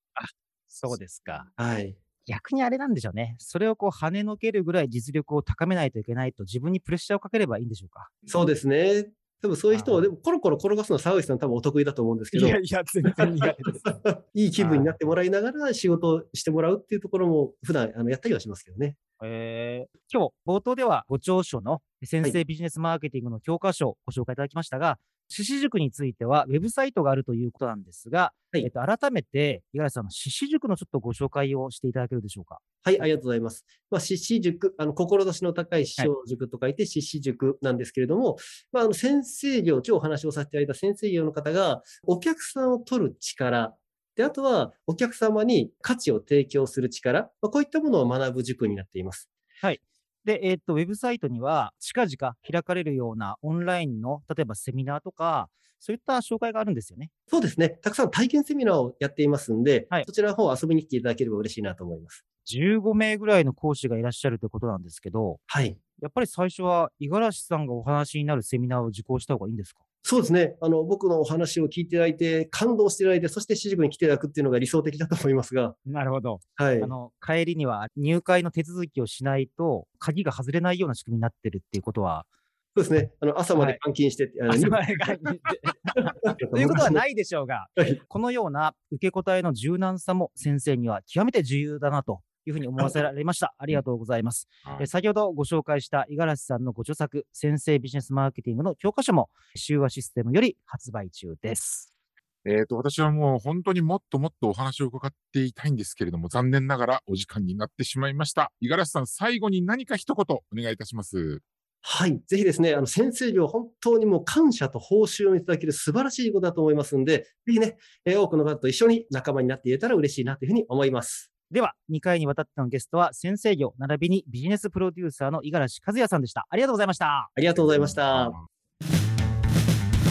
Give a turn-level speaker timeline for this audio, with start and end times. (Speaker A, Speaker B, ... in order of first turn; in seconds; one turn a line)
Speaker A: 0.2-1.5
Speaker B: 1.6-2.0
Speaker A: 2.3-8.1
Speaker B: 8.3-12.6
Speaker A: 9.7-10.1
Speaker A: 12.3-13.9
Speaker B: 13.2-19.0
Speaker A: 14.6-15.0
Speaker A: 19.2-32.6
Speaker B: 32.8-49.3
Speaker A: 49.6-57.1
Speaker B: 57.3-62.2
Speaker A: 62.5-65.4
Speaker B: 65.5-65.8
Speaker A: 66.0-69.8
Speaker B: 70.0-75.8
Speaker A: 75.9-82.3
Speaker B: 76.6-76.9
Speaker B: 82.8-84.8
Speaker A: 84.5-101.9
Speaker B: 86.3-87.0
Speaker C: 102.5-111.4
Speaker B: 111.8-121.3
Speaker A: 121.5-127.3
Speaker B: 127.3-128.4
Speaker C: 127.7-128.4